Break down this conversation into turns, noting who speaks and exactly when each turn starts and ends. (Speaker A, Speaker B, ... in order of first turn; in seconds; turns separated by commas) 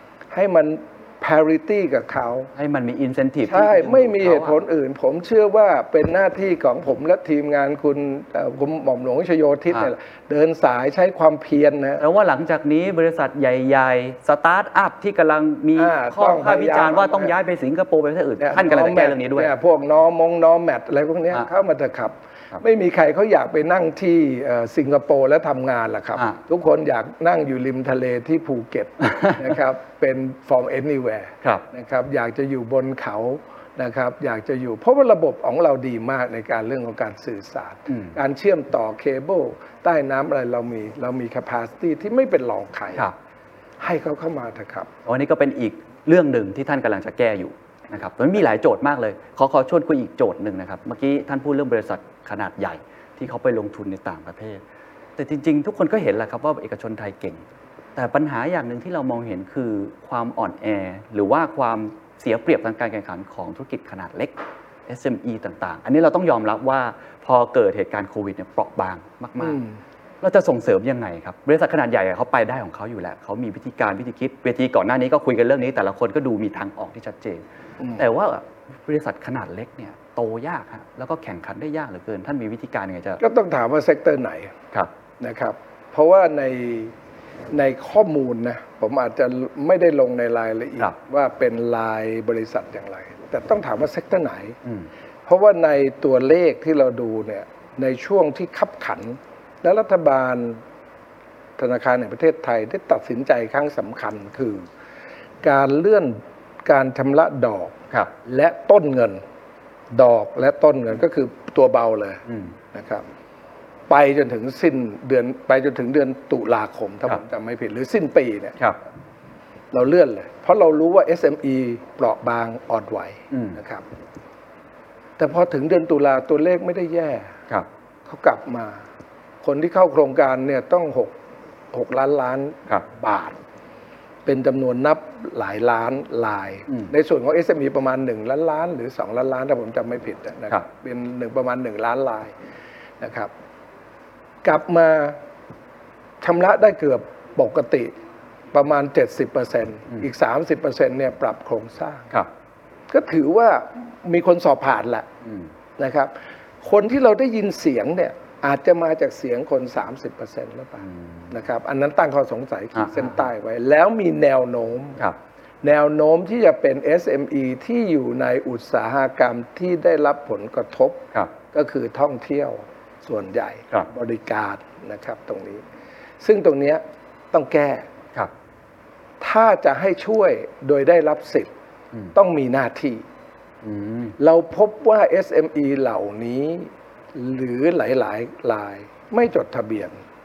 Speaker A: 0.3-2.5, Speaker B: 2.5-4.5, Speaker A: 3.5-12.0, Speaker B: 12.0-19.5, Speaker A: 15.8-17.3, Speaker A: 18.4-43.0, Speaker B: 29.1-29.4, Speaker A: 43.8-44.9, Speaker B: 45.0-54.6, Speaker B: 55.2-57.4, Speaker B: 57.9-64.3, Speaker B: 64.9-69.6, Speaker A: 69.4-69.7, Speaker B: 70.2-77.4, Speaker B: 78.0-83.2, Speaker A: 83.2-84.5, Speaker A: 85.2-86.9, Speaker A: 87.5-94.6, Speaker A: 95.2-100.6, Speaker A: 101.6-104.7, Speaker A: 105.4-109.2, Speaker A: 109.9-113.0, Speaker A: 113.9-118.6, Speaker A: 119.7-123.8, Speaker B: 123.3-123.5, Speaker A: 125.2-127.3, Speaker A: 128.1-128.8, Speaker A: 129.4-131.1, Speaker A: 131.7-133.4, Speaker A: 134.2-142.3, Speaker A: 143.0-143.3, Speaker A: 144.4-145.2, Speaker A: 146.2-147.9, Speaker A: 148.5-152.1, Speaker A: 152.9-155.1, Speaker A: 155.8-165.0, Speaker B: 162.8-163.1, Speaker A: 165.6-175.6, Speaker A: 176.2-177.9, Speaker A: 179.2-181.5, Speaker A: 182.1-183.0, Speaker B: 183.6-184.1, Speaker A: 184.2-190.0